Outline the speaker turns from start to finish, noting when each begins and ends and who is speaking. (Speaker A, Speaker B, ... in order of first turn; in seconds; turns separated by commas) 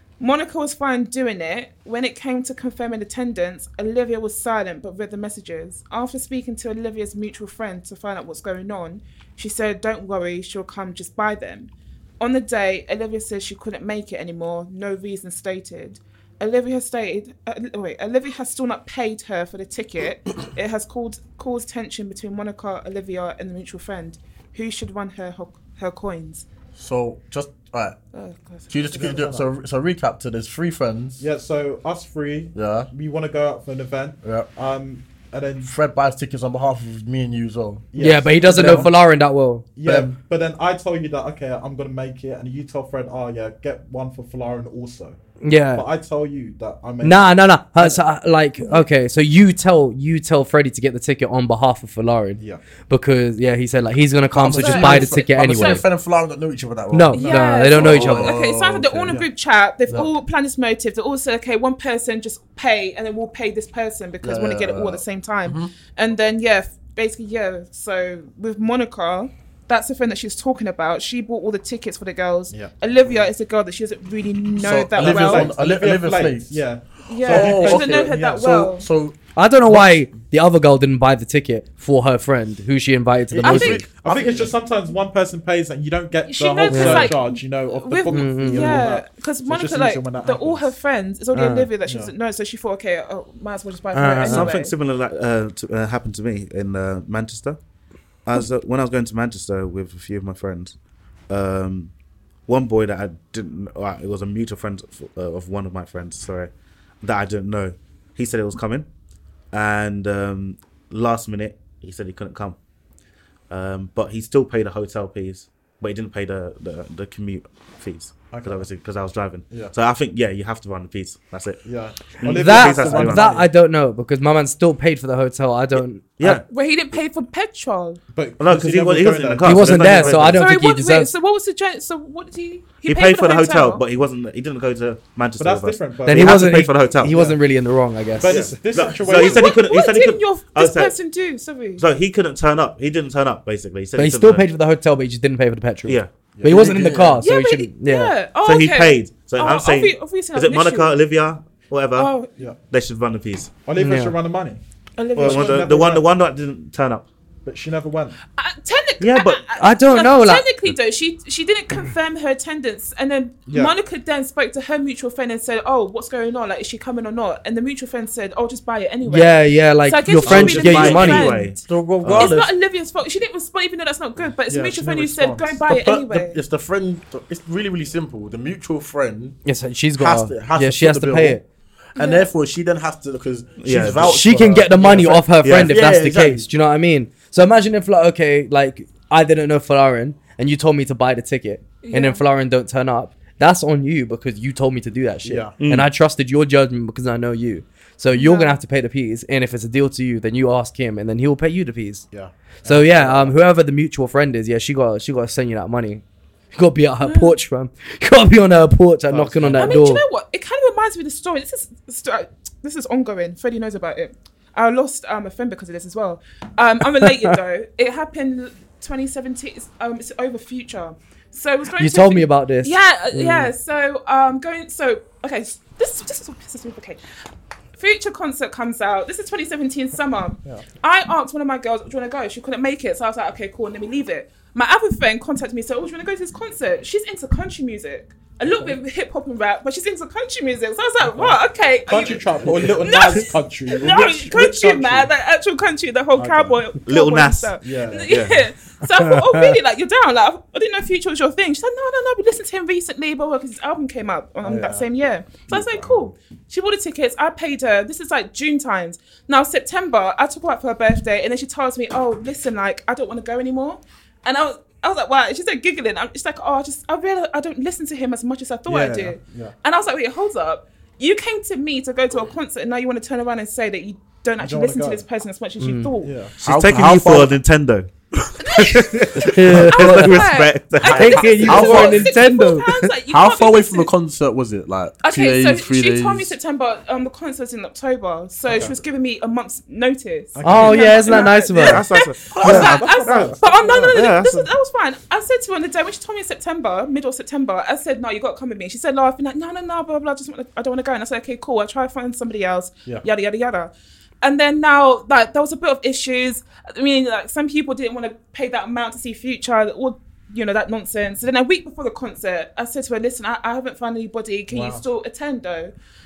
Speaker A: 0.2-26.5, Speaker B: 26.8-28.0, Speaker A: 28.1-29.1, Speaker B: 28.7-31.2, Speaker C: 29.0-29.5, Speaker C: 31.2-35.7, Speaker B: 32.5-32.9, Speaker B: 34.2-34.5, Speaker B: 35.6-37.9, Speaker C: 37.9-38.9, Speaker D: 38.0-39.7, Speaker B: 38.5-38.9, Speaker C: 39.8-45.2, Speaker B: 39.9-40.1, Speaker D: 45.4-45.9, Speaker C: 45.8-48.0, Speaker D: 47.0-55.9, Speaker B: 54.3-59.2, Speaker A: 54.5-55.8, Speaker D: 56.9-58.4, Speaker C: 57.1-57.4, Speaker A: 57.1-75.5, Speaker B: 64.2-65.7, Speaker C: 72.5-72.8, Speaker B: 74.6-76.6, Speaker C: 75.0-78.2, Speaker A: 77.1-78.9, Speaker B: 77.2-80.1, Speaker D: 79.4-83.9, Speaker B: 83.3-84.5, Speaker A: 83.4-83.8, Speaker C: 84.0-90.8, Speaker A: 86.2-94.7, Speaker D: 86.7-87.1, Speaker D: 88.1-88.9, Speaker D: 91.3-91.7, Speaker C: 91.9-92.1, Speaker D: 93.9-94.5, Speaker E: 94.2-97.6, Speaker E: 98.2-100.8, Speaker E: 101.3-101.9, Speaker E: 102.5-106.5, Speaker E: 107.0-108.9, Speaker E: 109.5-112.6, Speaker E: 113.5-121.6, Speaker C: 118.3-118.7, Speaker C: 121.7-123.5, Speaker E: 122.2-123.5, Speaker D: 122.2-126.4, Speaker E: 126.2-126.5, Speaker A: 126.5-128.0, Speaker C: 128.1-130.3, Speaker E: 128.4-130.5, Speaker D: 129.4-131.1, Speaker A: 130.3-133.8, Speaker E: 132.9-137.2, Speaker C: 135.4-137.4, Speaker D: 136.1-138.5, Speaker C: 138.2-139.6, Speaker E: 138.2-140.9, Speaker A: 139.1-141.8, Speaker E: 141.8-144.4, Speaker D: 144.0-148.1, Speaker E: 145.9-146.1, Speaker C: 146.4-146.9, Speaker B: 146.4-147.2, Speaker A: 147.2-151.0, Speaker E: 148.4-152.1, Speaker A: 152.0-152.3, Speaker E: 152.7-153.5, Speaker C: 153.6-154.6, Speaker D: 153.8-154.2, Speaker A: 155.0-155.7, Speaker C: 155.2-156.1, Speaker E: 155.2-157.1, Speaker C: 157.4-158.2, Speaker A: 158.4-171.6, Speaker E: 159.0-159.4, Speaker D: 159.6-160.5, Speaker C: 163.5-163.7, Speaker D: 169.1-171.4, Speaker E: 170.2-172.4, Speaker B: 171.6-172.5, Speaker A: 172.2-176.4, Speaker C: 174.5-175.7, Speaker B: 175.7-179.4, Speaker D: 179.4-181.4, Speaker B: 180.0-181.4, Speaker B: 182.0-186.5, Speaker A: 182.0-182.3, Speaker E: 183.6-184.3, Speaker D: 184.0-202.1, Speaker E: 185.4-185.9, Speaker A: 191.8-192.2, Speaker C: 195.2-195.6, Speaker E: 195.6-195.9, Speaker A: 198.1-198.6, Speaker C: 202.1-203.4, Speaker D: 202.6-206.0, Speaker D: 206.5-210.0, Speaker A: 207.0-207.4, Speaker C: 209.1-209.8, Speaker A: 209.6-227.0, Speaker D: 217.0-217.3, Speaker D: 221.8-223.5, Speaker A: 227.8-276.1, Speaker C: 238.5-238.8, Speaker C: 241.0-245.1, Speaker B: 242.4-242.8, Speaker C: 246.2-246.6, Speaker E: 246.9-247.5, Speaker C: 247.6-248.1, Speaker E: 248.1-248.5, Speaker D: 249.0-249.4, Speaker C: 254.4-254.9, Speaker C: 255.5-256.1, Speaker C: 268.7-269.6, Speaker C: 274.4-275.1, Speaker D: 275.6-275.9, Speaker C: 276.0-276.9, Speaker E: 276.4-282.1, Speaker B: 276.4-277.4, Speaker A: 278.4-283.9, Speaker D: 279.2-280.3, Speaker D: 280.9-282.8, Speaker B: 281.5-282.0, Speaker B: 283.1-286.4, Speaker A: 285.0-303.7, Speaker C: 288.5-288.7, Speaker C: 290.4-291.4, Speaker D: 290.4-291.8, Speaker E: 291.6-294.5, Speaker B: 292.3-293.0, Speaker C: 292.3-293.9, Speaker A: 304.2-315.7, Speaker C: 314.5-314.8